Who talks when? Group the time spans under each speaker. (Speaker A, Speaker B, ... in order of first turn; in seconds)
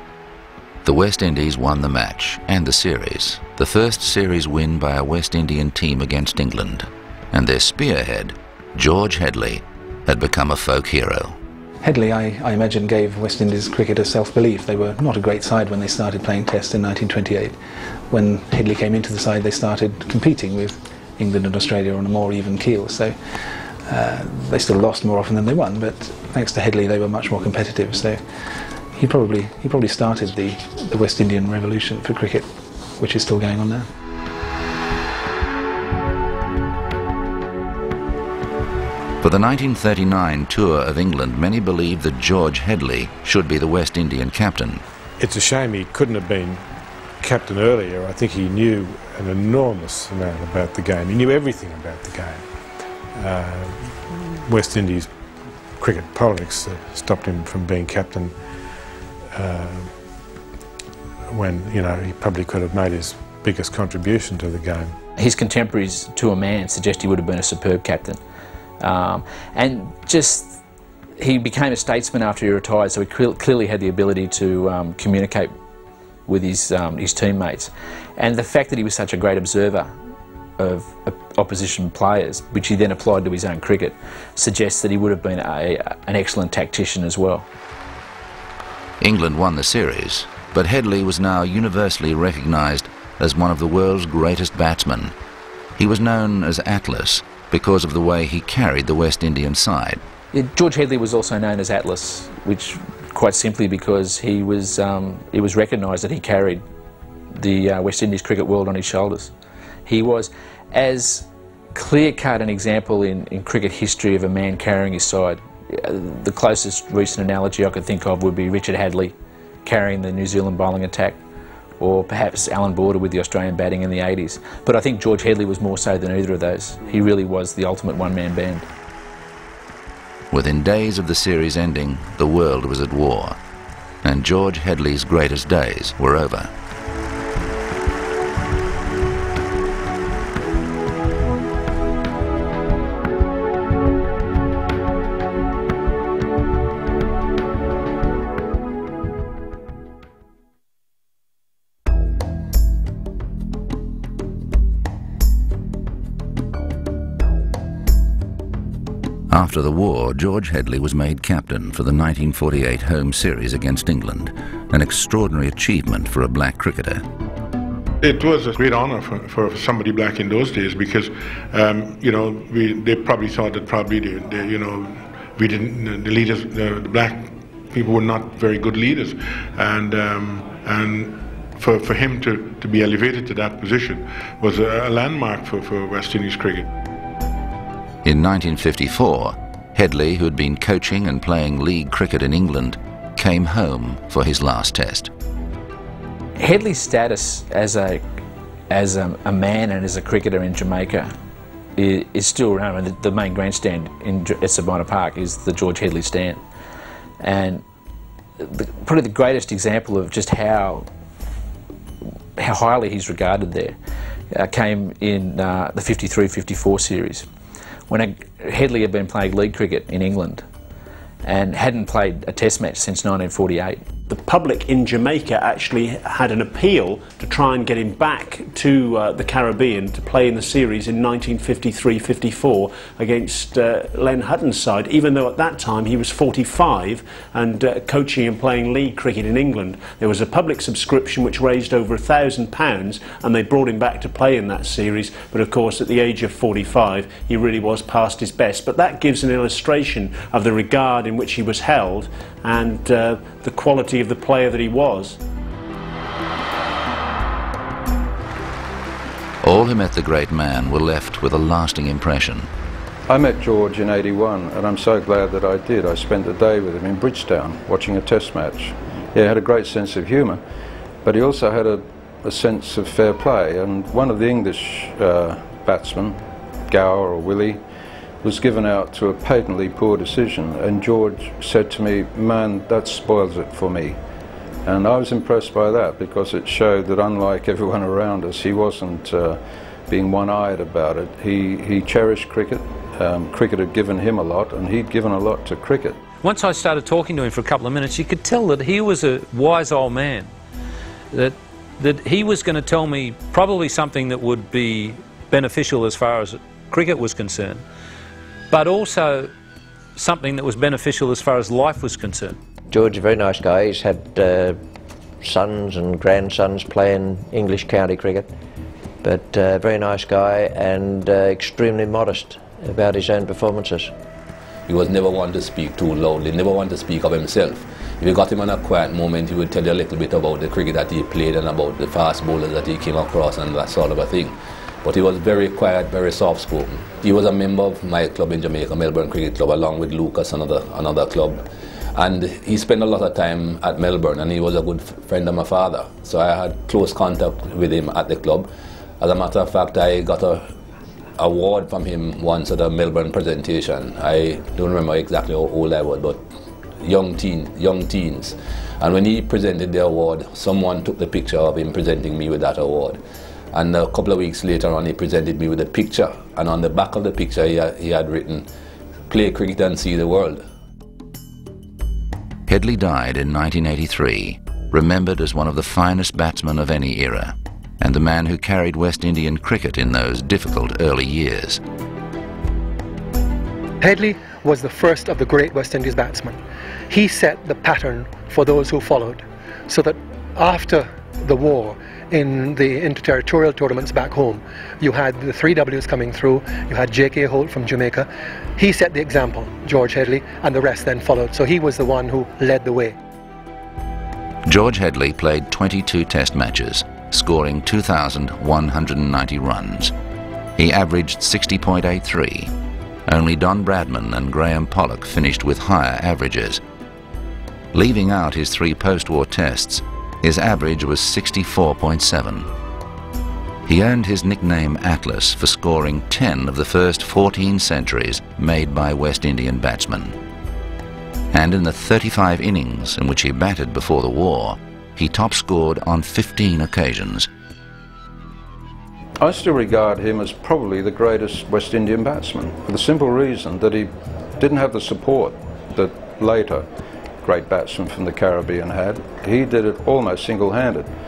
Speaker A: 0.8-11.4, 39.2-44.8, 89.0-95.1, 95.8-100.0, 130.3-133.4, 134.0-136.5, 159.3-167.0, 188.0-195.1, 259.4-262.5, 372.5-381.6, 404.4-409.9, 410.6-412.5, 413.1-416.6, 417.7-422.5, 423.6-430.1, 431.3-437.3
Speaker B: 11.8-33.9
Speaker C: 45.2-55.2, 55.7-60.1, 61.3-65.0
Speaker D: 65.2-68.2, 68.8-70.6, 71.2-75.5, 76.3-79.9, 80.6-87.5, 100.3-106.6, 107.3-109.3, 109.8-121.2, 121.8-128.7, 196.4-198.0, 198.7-201.1, 201.8-206.4, 207.2-207.6, 208.4-210.9, 212.4-213.8, 214.3-217.2, 217.9-220.4, 221.2-223.8
Speaker E: 168.0-186.7
Speaker F: 224.1-255.2
Speaker G: 263.1-270.4, 271.0-277.6, 278.2-284.0, 284.6-296.0, 439.2-446.7, 447.2-450.9
Speaker H: 296.2-300.3, 301.1-307.6, 308.5-309.3, 309.9-312.4
Speaker I: 312.7-314.6, 315.2-318.3, 319.0-323.9
Speaker J: 324.7-348.5, 349.0-350.5, 351.2-356.2, 356.8-363.0, 363.5-368.5, 369.1-370.4
Speaker K: 383.8-402.9